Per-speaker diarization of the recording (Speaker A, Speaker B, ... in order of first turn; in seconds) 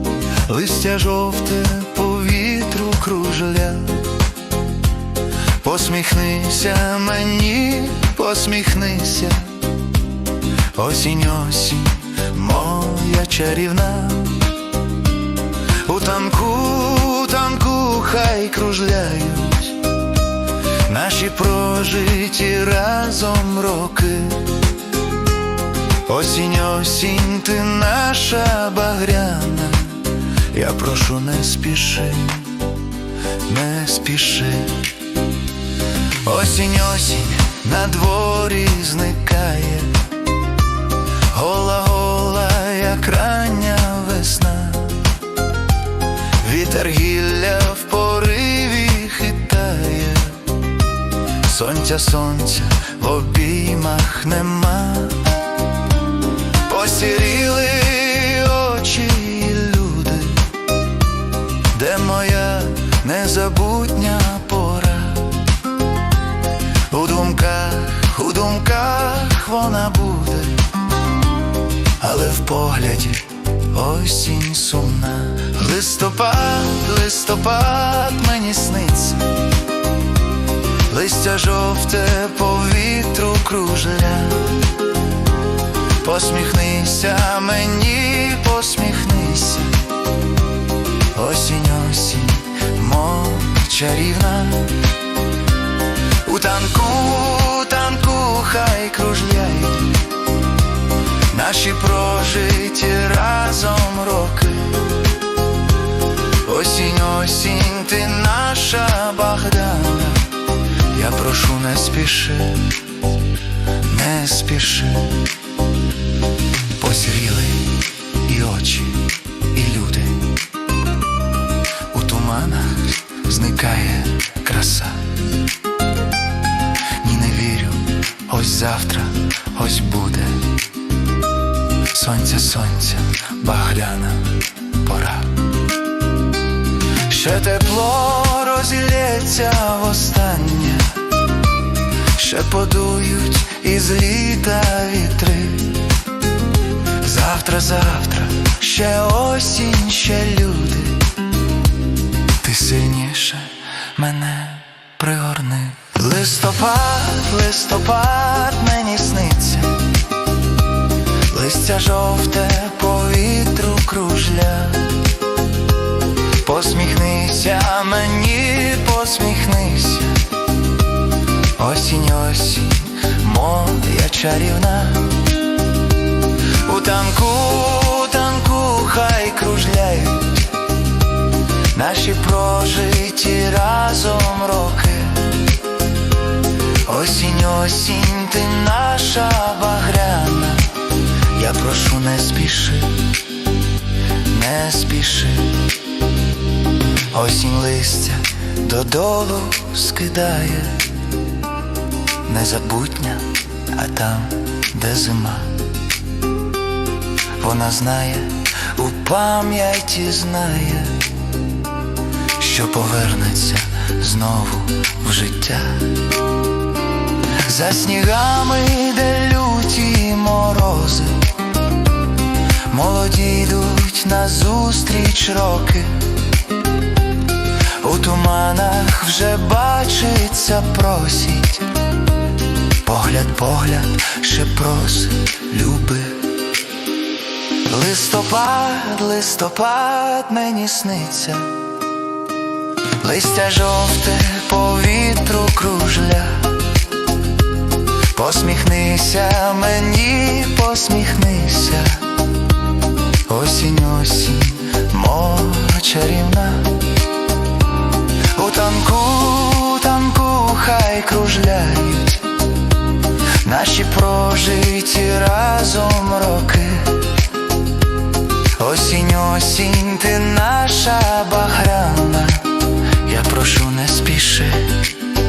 Speaker A: 0.4-4.1, 5.6-9.6, 10.7-14.5, 15.8-19.8, 20.8-24.6, 26.1-32.6, 33.4-34.9, 36.2-40.1, 41.3-45.1, 46.4-50.5, 51.4-55.4, 56.6-60.5, 61.7-65.4, 66.9-70.7, 72.0-79.4, 80.9-84.6, 86.0-89.8, 91.1-94.9, 96.2-100.1, 101.3-105.0, 106.4-112.8, 113.8-115.3, 116.8-120.3, 121.9-125.1, 126.9-130.5, 131.9-135.4, 137.0-141.1, 142.1-145.9, 146.9-151.1, 152.4-159.9, 161.2-165.0, 166.4-170.2, 171.5-175.2, 176.6-180.5, 181.7-185.5, 186.8-193.1, 194.3-195.7, 197.1-201.0, 202.2-205.7, 207.4-211.1, 212.3-216.1, 217.3-221.3, 222.7-226.1, 227.8-231.8, 232.8-236.3, 237.6-241.6, 243.0-246.6, 248.1-252.1, 253.2-256.8, 258.3-262.3, 263.4-267.1, 268.5-274.9